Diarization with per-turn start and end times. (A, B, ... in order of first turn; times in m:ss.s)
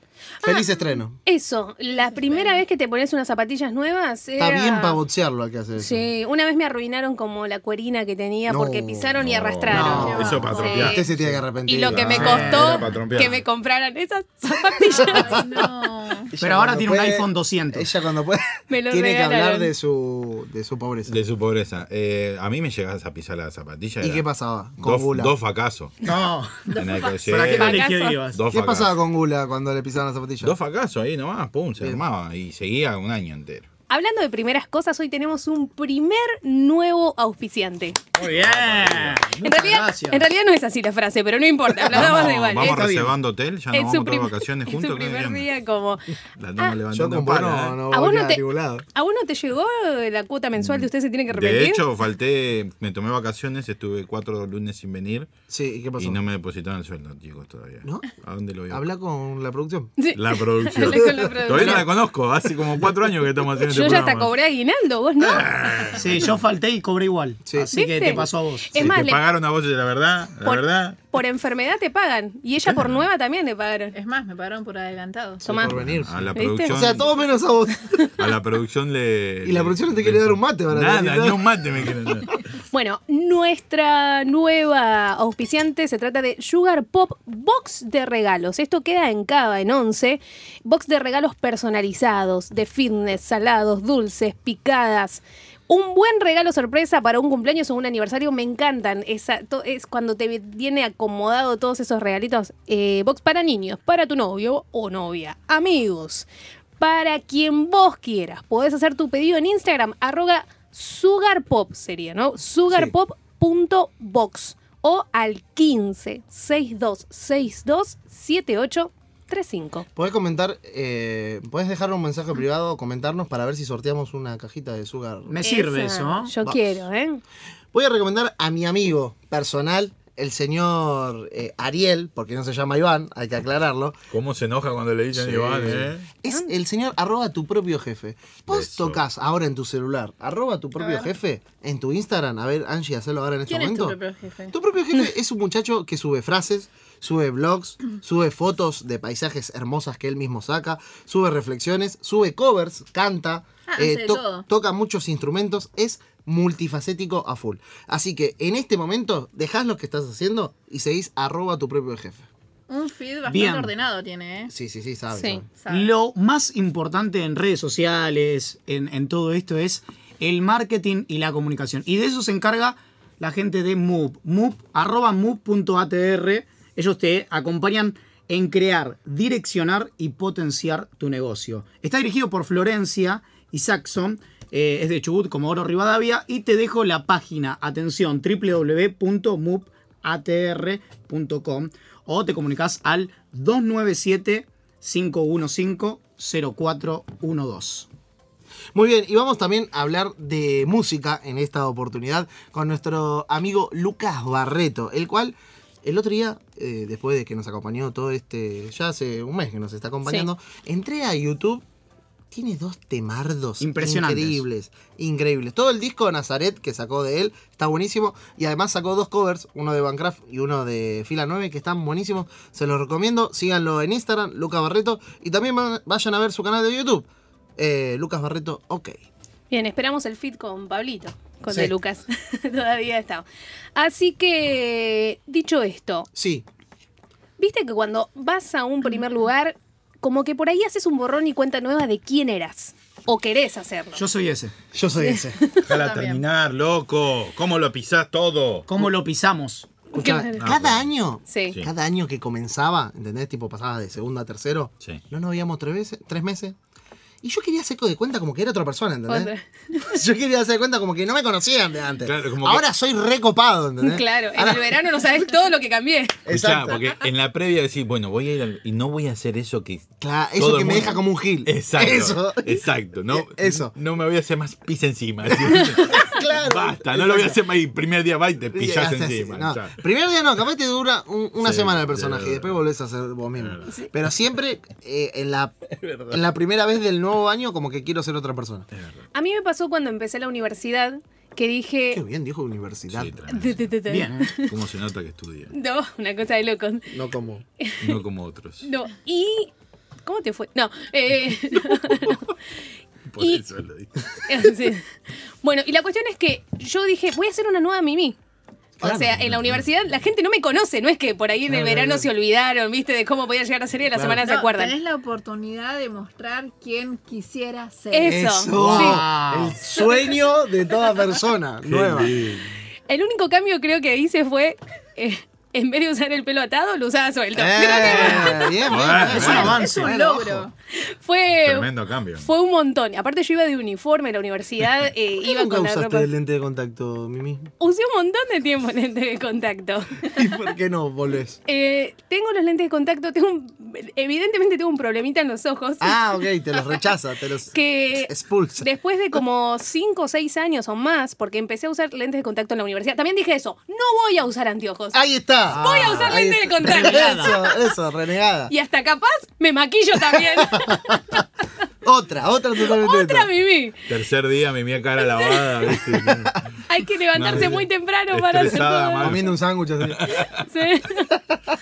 0:00.4-0:05.0 A
0:00.4-0:01.2 B
0:02.0-0:02.6 C
0:04.4-0:06.1 B
0:05.8-0:11.1 A
0:08.5-0:09.1 B
0:09.2-0:11.3 D
0:09.7-0:12.9 B
0:09.8-0:11.0 C
0:11.7-0:15.6 A
0:11.9-0:13.4 D
0:12.2-0:12.7 E
0:14.9-0:16.3 C
0:15.0-0:15.6 B
0:16.3-0:21.2 B
0:16.4-0:17.9 E
0:18.7-0:19.7 A
0:21.1-0:24.2 D
0:24.0-0:25.3 B
0:24.8-0:25.9 D
0:26.0-0:26.7 E
0:26.7-0:27.4 C
0:26.7-0:28.9 D
0:27.3-0:28.4 E
0:27.4-0:28.2 A
0:28.5-0:30.6 B
0:30.4-0:33.7 D
0:33.9-0:38.0 A
0:38.2-0:40.3 E
0:38.2-0:39.4 D
0:39.4-0:42.9 A
0:41.9-0:45.5 D
0:42.0-0:43.1 E
0:43.7-0:46.8 A
0:46.4-0:47.8 D
0:46.9-0:48.8 B
0:47.9-0:48.4 A
0:49.0-0:51.8 A
0:50.6-0:55.3 D
0:55.5-0:56.2 B
0:56.0-0:58.8 D
0:57.8-0:58.1 B
0:58.7-1:00.0 B
1:00.0-1:01.9 A
1:00.1-1:04.3 D
1:00.8-1:01.8 B
1:03.6-1:05.9 A
1:05.2-1:06.4 D
1:06.0-1:08.7 E
1:07.4-1:07.7 B
1:07.7-1:09.2 A
1:08.8-1:11.0 D
1:10.4-1:14.0 A
1:12.7-1:13.0 D
1:13.9-1:15.5 C
1:15.4-1:16.8 A
1:15.4-1:18.1 B
1:15.6-1:17.2 D
1:18.2-1:22.4 D
1:19.4-1:21.5 B
1:22.7-1:46.3 A
1:46.8-1:59.9 A
2:00.0-2:05.4 B
2:05.3-2:06.3 E
2:05.4-2:07.2 A
2:07.7-2:14.0 B
2:14.1-2:16.1 D
2:15.1-2:24.0 B
2:18.5-2:19.0 D
2:20.8-2:21.1 C
2:23.5-2:24.6 C
2:24.5-2:42.2 B
2:33.7-2:34.5 C
2:42.7-2:44.5 C
2:43.3-2:43.7 E
2:44.5-2:45.5 B
2:45.1-2:45.4 A
2:45.6-2:45.9 C
2:45.7-3:17.9 E
3:18.7-3:31.6 B
3:32.3-3:48.9 B
3:33.6-3:34.4 E
3:49.5-3:53.2 A
3:53.8-3:56.1 A
3:56.2-3:56.4 B
3:57.4-4:04.0 A
4:04.0-4:04.5 E
4:04.7-4:05.4 B
4:05.0-4:05.6 A
4:05.6-4:06.2 C
4:05.6-4:08.7 D
4:08.7-4:09.7 E
4:09.9-4:16.6 B
4:10.0-4:10.5 A
4:10.4-4:10.9 D
4:11.3-4:11.6 A
4:17.2-4:24.7 B
4:19.1-4:19.9 A
4:22.0-4:22.6 D
4:23.8-4:26.2 A
4:26.3-4:26.8 B
4:26.3-4:39.8 D
4:30.0-4:33.7 B
4:35.9-4:37.4 B
4:38.5-4:45.6 B
4:41.4-4:42.6 D
4:43.4-4:43.9 D
4:45.8-4:46.2 D
4:46.1-4:48.7 B
4:48.7-4:49.1 D
4:49.1-4:52.0 A
4:51.9-4:53.1 B
4:52.9-4:53.8 D
4:53.3-4:54.6 A
4:53.9-4:54.3 E
4:54.4-4:55.5 D
4:55.5-4:57.0 A
4:56.9-4:57.4 B
4:57.6-4:58.0 A
4:57.8-4:58.7 D
4:58.6-4:59.5 A
5:00.0-5:02.3 A
5:01.9-5:02.2 D
5:03.1-5:04.2 D
5:04.3-5:04.9 A
5:05.4-5:08.2 A
5:08.8-5:14.8 A
5:08.8-5:09.2 B
5:09.2-5:09.6 D
5:11.5-5:12.1 B
5:13.9-5:14.2 B
5:14.2-5:18.2 C
5:17.9-5:19.0 A
5:18.0-5:22.2 B
5:18.5-5:19.6 E
5:21.6-5:22.5 D
5:22.9-5:28.7 A
5:27.4-5:30.5 B
5:27.8-5:28.3 E
5:28.6-5:29.6 D
5:29.0-5:29.9 E
5:29.1-5:30.5 C
5:30.7-5:36.1 A
5:31.4-5:32.3 D
5:35.2-5:37.5 B
5:37.6-5:40.3 A
5:40.1-5:41.4 B
5:41.5-5:46.8 A
5:45.8-5:48.7 B
5:47.5-5:57.6 A
5:54.9-5:58.5 B
5:55.5-5:57.3 E
5:58.5-6:01.2 A
6:00.2-6:00.9 B
6:01.8-6:03.3 B
6:02.6-6:03.8 A
6:03.9-6:06.4 D
6:05.2-6:05.7 A
6:06.7-6:09.2 A
6:07.1-6:10.4 D
6:09.0-6:10.0 B
6:10.4-6:11.2 A